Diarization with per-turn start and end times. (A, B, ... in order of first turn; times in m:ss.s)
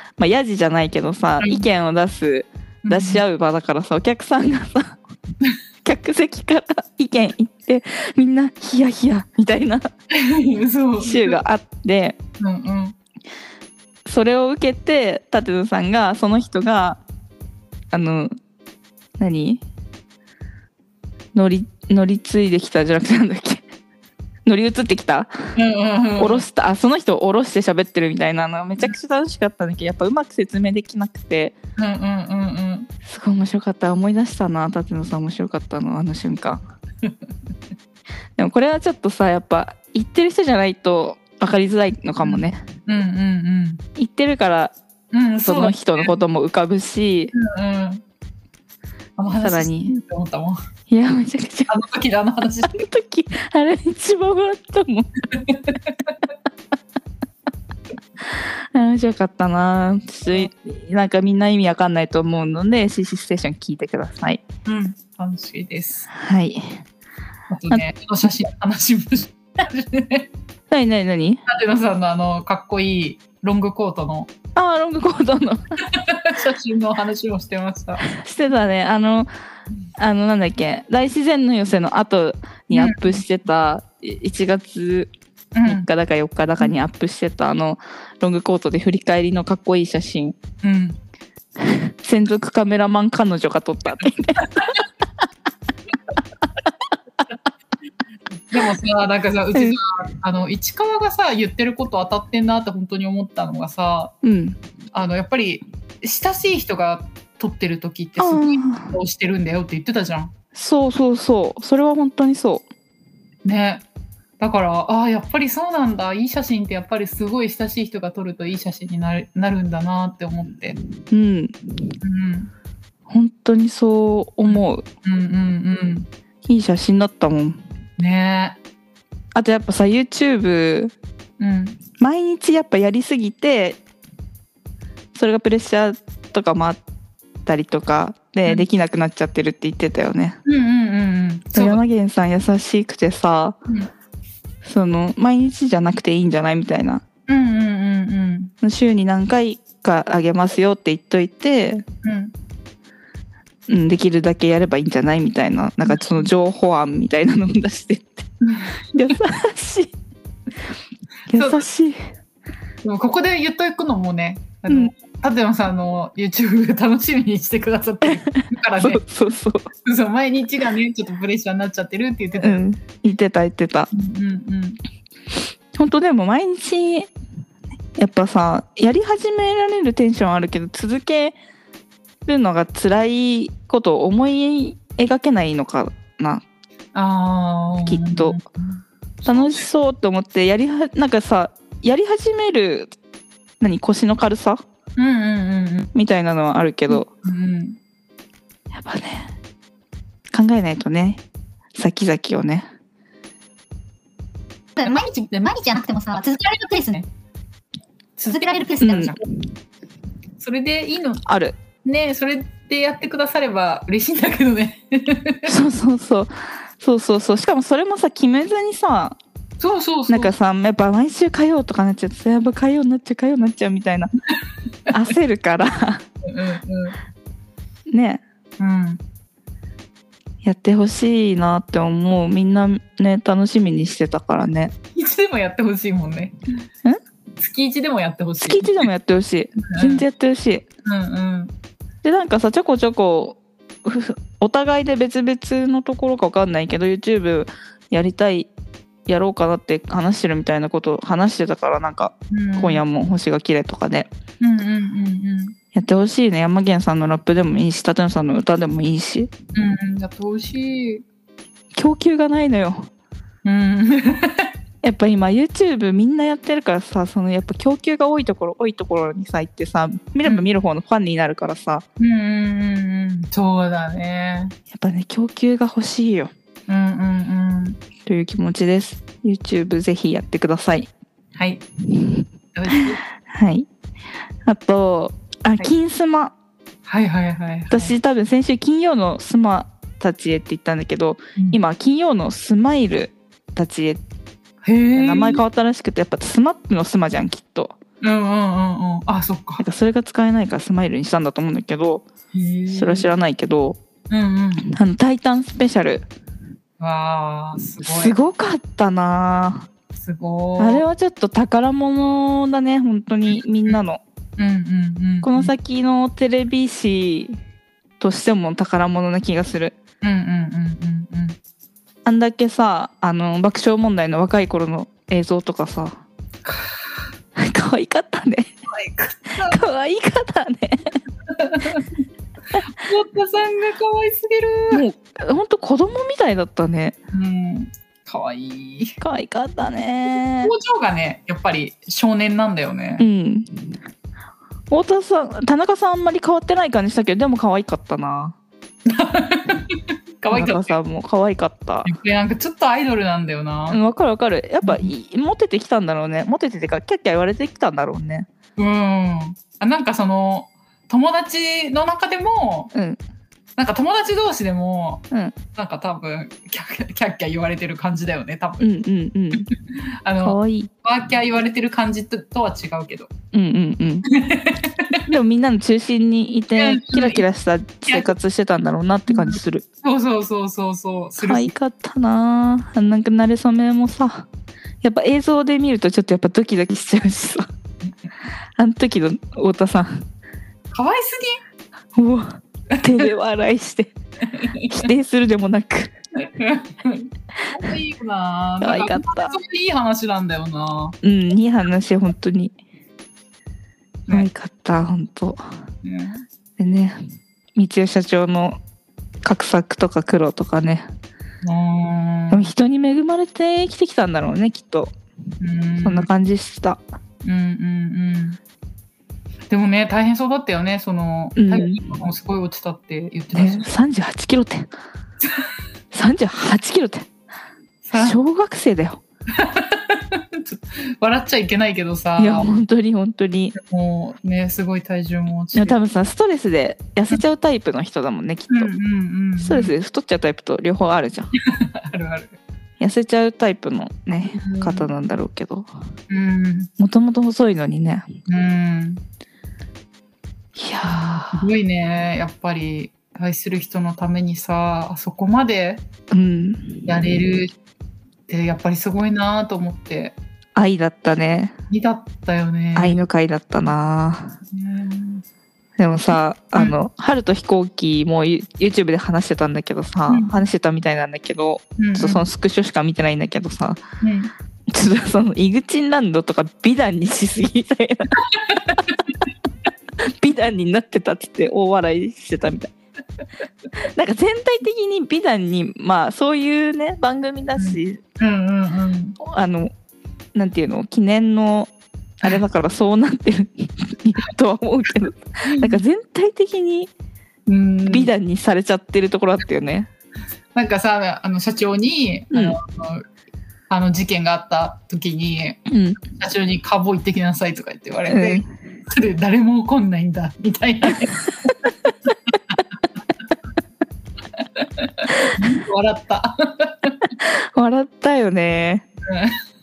0:00.2-0:05.0 A
0:01.4-0:01.6 B
0:02.8-0:03.2 B
0:05.8-0:09.9 A
0:10.1-0:11.4 B
0:11.0-0:12.2 A
0:12.4-0:13.0 B
0:14.0-0:17.0 A
0:17.9-0:18.3 A
0:19.2-0:19.6 A
0:21.3-0:23.6 A
0:24.4-0:25.3 A
0:25.6-0:26.4 B
0:26.2-0:31.6 A
0:31.8-0:32.9 B
0:33.0-0:36.6 A
0:38.4-0:42.6 A
0:42.2-0:43.8 B
0:44.0-0:44.7 A
0:45.1-0:46.1 B
0:45.4-0:47.3 A
0:47.3-0:48.0 B
0:49.2-0:50.6 B
0:49.3-0:49.9 A
0:50.9-0:51.7 A
0:51.7-0:52.9 B
0:52.6-0:55.1 A
0:55.3-0:56.1 B
0:58.3-1:04.4 A
1:04.6-1:06.1 B
1:06.1-1:06.8 A
1:07.5-1:10.3 B
1:10.7-1:11.4 A
1:11.5-1:14.3 B
1:14.6-1:15.6 A
1:15.9-1:18.1 B
1:18.1-1:19.3 A
1:20.0-1:25.1 A
1:22.7-1:23.2 B
1:25.6-1:25.9 B
1:25.6-1:30.4 A
1:30.6-1:31.0 B
1:31.6-1:34.7 A
1:38.5-1:44.1 B
1:44.2-1:44.6 A
1:44.9-1:50.3 B
1:48.2-1:48.9 A
1:50.6-1:52.6 A
1:53.4-1:53.8 B
1:54.4-2:00.8 B
2:01.1-2:01.9 A
2:02.0-2:02.5 B
2:03.1-2:04.9 A
2:04.5-2:06.1 B
2:06.4-2:07.6 A
2:08.0-2:08.6 B
2:09.3-2:10.9 A
2:11.4-2:11.8 B
2:12.0-2:13.8 A
2:15.1-2:16.8 A
2:17.4-2:20.4 A
2:20.4-2:21.8 B
2:21.5-2:23.6 A
2:24.6-2:27.0 A
2:27.3-2:28.5 B
2:28.6-2:31.8 A
2:32.0-2:32.3 B
2:33.7-2:38.3 A
2:35.9-2:36.3 B
2:38.4-2:39.1 B
2:38.9-2:39.9 A
2:41.3-2:42.1 A
2:41.3-2:41.6 B
2:42.8-2:49.0 B
2:48.8-2:49.7 A
2:49.8-2:52.6 B
2:52.4-2:53.9 A
2:53.9-2:54.8 B
2:55.7-2:57.1 A
2:58.0-3:01.4 A
3:02.3-3:06.4 A
3:06.9-3:09.6 B
3:07.9-3:08.4 A
3:09.2-3:12.9 A
3:13.6-3:14.6 A
3:15.0-3:15.9 B
3:15.9-3:17.1 A
3:16.9-3:17.8 B
3:18.7-3:19.3 A
3:20.3-3:21.2 A
3:21.7-3:22.7 A
3:24.8-3:27.0 C
3:28.2-3:29.2 B
3:28.3-3:29.2 C
3:28.8-3:29.2 A
3:30.4-3:31.2 B
3:31.3-3:31.6 A
3:31.8-3:35.5 B
3:35.4-3:39.2 A
3:39.6-3:40.3 B
3:40.1-3:44.1 A
3:44.9-3:46.0 A
3:46.2-3:47.0 B
3:47.9-3:48.2 A
3:48.6-3:49.0 B
3:50.4-3:54.7 A
3:54.9-3:56.4 B
3:57.4-3:58.9 B
3:58.4-4:00.6 A
3:59.6-4:00.0 B
4:00.8-4:01.5 B
4:02.0-4:08.5 A
4:09.1-4:14.1 A
4:12.3-4:12.8 B
4:14.4-4:15.6 B
4:15.7-4:19.3 A
4:19.6-4:21.0 B
4:21.7-4:22.9 A
4:23.4-4:24.5 B
4:24.8-4:31.8 A
4:32.0-4:34.6 B
4:34.7-4:36.3 A
4:36.7-4:37.8 B
4:38.0-4:40.9 A
4:41.4-4:41.6 B
4:42.0-4:42.2 A
4:42.5-4:43.0 B
4:43.3-4:43.7 A
4:44.4-4:46.3 A
4:46.9-4:47.9 B
4:47.7-4:54.0 A
4:54.6-4:55.4 B
4:54.9-4:57.8 A
4:58.0-4:59.6 B
4:59.6-5:02.1 A
5:02.3-5:03.1 B
5:02.7-5:03.8 A
5:04.1-5:04.7 B
5:04.7-5:06.1 A
5:06.8-5:08.1 B
5:07.8-5:09.7 A
5:09.9-5:10.8 B
5:10.6-5:14.0 A
5:14.4-5:15.5 B
5:15.2-5:17.4 A
5:18.0-5:19.8 A
5:20.0-5:21.4 B
5:22.0-5:26.0 A
5:26.4-5:26.8 B
5:27.4-5:28.5 A
5:28.7-5:29.6 B
5:29.4-5:30.9 A
5:31.3-5:32.0 B
5:32.5-5:34.8 B
5:34.7-5:37.0 A
5:37.1-5:39.0 B
5:39.0-5:40.5 A
5:40.4-5:43.1 B
5:43.0-5:43.8 A
5:44.7-5:48.4 A
5:48.9-5:50.8 B
5:50.3-5:51.9 A
5:51.8-5:53.8 B
5:53.7-5:58.3 A
5:54.6-5:54.9 B
5:58.6-6:02.7 B
6:02.7-6:03.0 A
6:03.6-6:08.8 B
6:08.6-6:09.5 A
6:10.0-6:13.1 B
6:10.2-6:10.7 A
6:13.3-6:14.1 A
6:14.1-6:15.1 B
6:15.1-6:19.6 A
6:16.6-6:17.2 B
6:17.8-6:18.1 B
6:19.1-6:21.5 B
6:21.2-6:24.3 A
6:24.8-6:27.5 A
6:28.6-6:30.0 A
6:30.7-6:31.4 B
6:31.9-6:33.9 A
6:32.8-6:33.0 B
6:34.3-6:34.8 B
6:34.7-6:35.9 A
6:36.1-6:41.0 B
6:38.6-6:39.4 A
6:41.0-6:42.6 A
6:44.1-6:45.4 A
6:45.8-6:46.3 B
6:46.6-6:47.0 A
6:47.6-6:48.6 A
6:49.2-6:50.9 A
6:51.4-6:52.5 B
6:52.3-6:54.9 A
6:55.4-6:56.1 B
6:55.8-6:56.8 A
6:57.2-6:58.4 B
6:59.5-7:03.7 B
7:01.4-7:01.9 A
7:03.3-7:04.7 A
7:05.9-7:07.1 A
7:07.8-7:08.2 B
7:07.9-7:09.0 A
7:09.3-7:12.5 B
7:12.2-7:13.6 A
7:13.6-7:15.8 B
7:15.6-7:18.7 A
7:18.5-7:19.7 B
7:19.4-7:21.3 A
7:21.4-7:22.4 B
7:22.8-7:25.7 A
7:24.3-7:24.9 B
7:26.1-7:26.7 B
7:26.8-7:28.1 A
7:28.3-7:29.0 B
7:30.6-7:31.5 A
7:30.8-7:35.8 B
7:36.1-7:36.9 A
7:36.9-7:37.5 B
7:38.3-7:40.2 B
7:40.6-7:41.5 A
7:41.7-7:43.0 B
7:42.8-7:44.4 A
7:44.5-7:45.2 B
7:45.8-7:53.8 A
7:50.1-7:50.4 B
7:51.8-7:52.3 B
7:54.0-7:54.3 B
7:54.7-7:58.2 A
7:58.2-7:59.2 B
8:00.0-8:02.7 A
8:03.9-8:08.0 A
8:07.6-8:09.2 B
8:09.2-8:09.7 A
8:10.3-8:11.7 A
8:12.2-8:16.9 A
8:15.4-8:15.8 B
8:17.5-8:18.1 B
8:17.9-8:19.9 A
8:20.6-8:23.0 B
8:23.7-8:31.6 B
8:25.7-8:26.0 A
8:28.1-8:28.4 A
8:34.4-8:37.1 B
8:37.2-8:38.9 A
8:39.1-8:39.4 B